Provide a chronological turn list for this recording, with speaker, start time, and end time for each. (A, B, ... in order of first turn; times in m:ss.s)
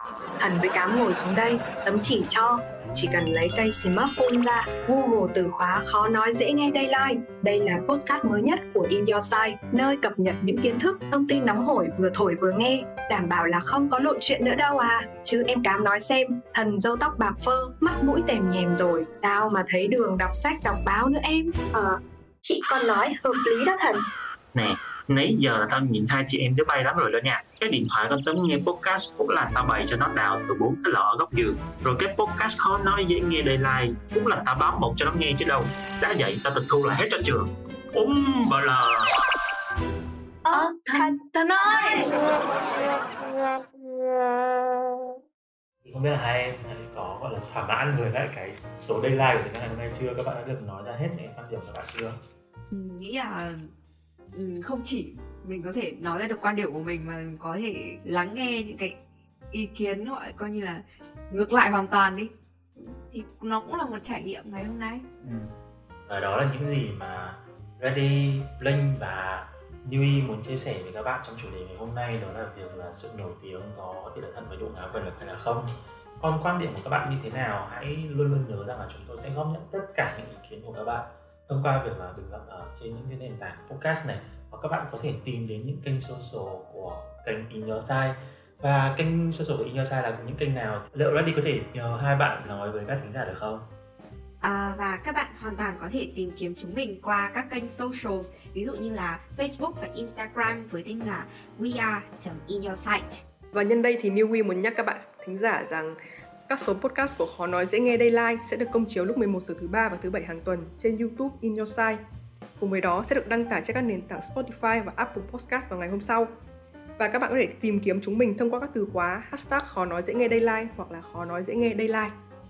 0:00.4-0:21.5 A
0:21.7-0:24.0 B
0:24.5-0:39.1 C
0:40.5-0:41.1 B
0:40.5-0:42.1 A
0:45.8-0:52.2 D
0:52.7-0:53.7 E
0:54.3-0:59.0 E
0:59.5-1:05.0 E
1:05.2-1:05.5 D
1:06.1-1:15.7 D
1:16.2-1:33.7 D
1:34.4-1:43.2 E
1:43.5-1:52.0 F
1:52.6-1:56.3 F
1:57.0-2:02.1 F